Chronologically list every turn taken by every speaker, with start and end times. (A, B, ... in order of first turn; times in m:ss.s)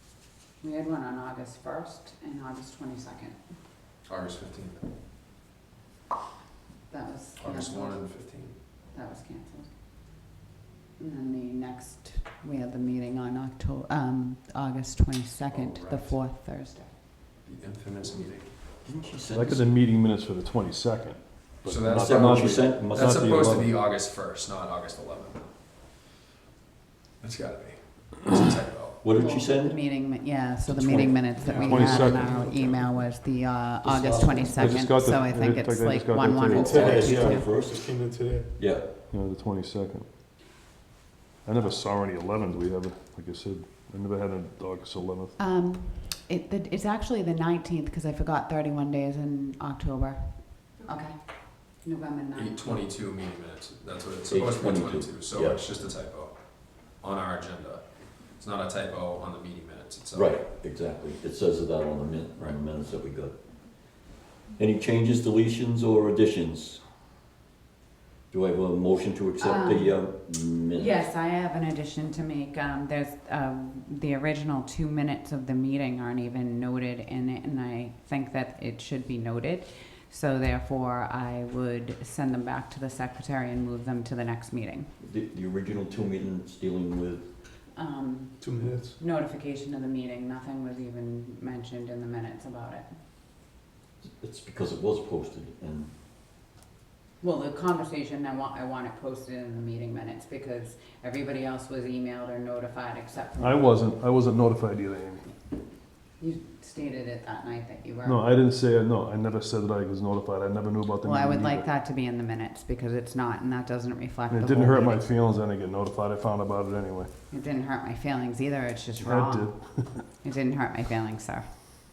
0:00.6-0:03.4 A
0:04.0-0:04.9 B
0:06.9-0:08.2 A
0:07.4-0:08.6 B
0:08.7-0:09.7 A
0:11.0-0:16.9 A
0:15.5-0:16.2 B
0:17.4-0:18.6 B
0:18.8-0:19.7 C
0:19.3-0:23.8 D
0:21.6-0:25.5 B
0:22.0-0:23.6 C
0:27.2-0:29.0 B
0:29.0-0:29.8 C
0:29.1-0:37.5 A
0:31.4-0:32.2 E
0:31.5-0:33.0 D
0:33.8-0:34.9 C
0:34.6-0:36.9 D
0:36.5-0:37.9 C
0:36.6-0:38.5 E
0:38.6-0:38.9 C
0:39.1-0:40.1 D
0:41.4-0:45.4 D
0:45.4-0:52.6 A
0:52.3-1:00.4 B
0:54.3-0:55.6 C
1:00.1-1:04.0 C
1:04.6-1:06.8 C
1:08.3-1:11.1 C
1:09.4-1:10.0 A
1:10.7-1:24.9 A
1:25.0-1:27.3 C
1:27.7-1:32.9 A
1:28.4-1:29.0 E
1:34.2-1:35.9 C
1:37.2-1:43.7 A
1:43.4-1:45.3 D
1:46.2-1:48.2 A
1:48.0-1:51.7 D
1:51.0-1:55.0 A
1:54.3-1:57.1 D
1:57.3-2:01.5 A
1:59.0-2:00.0 D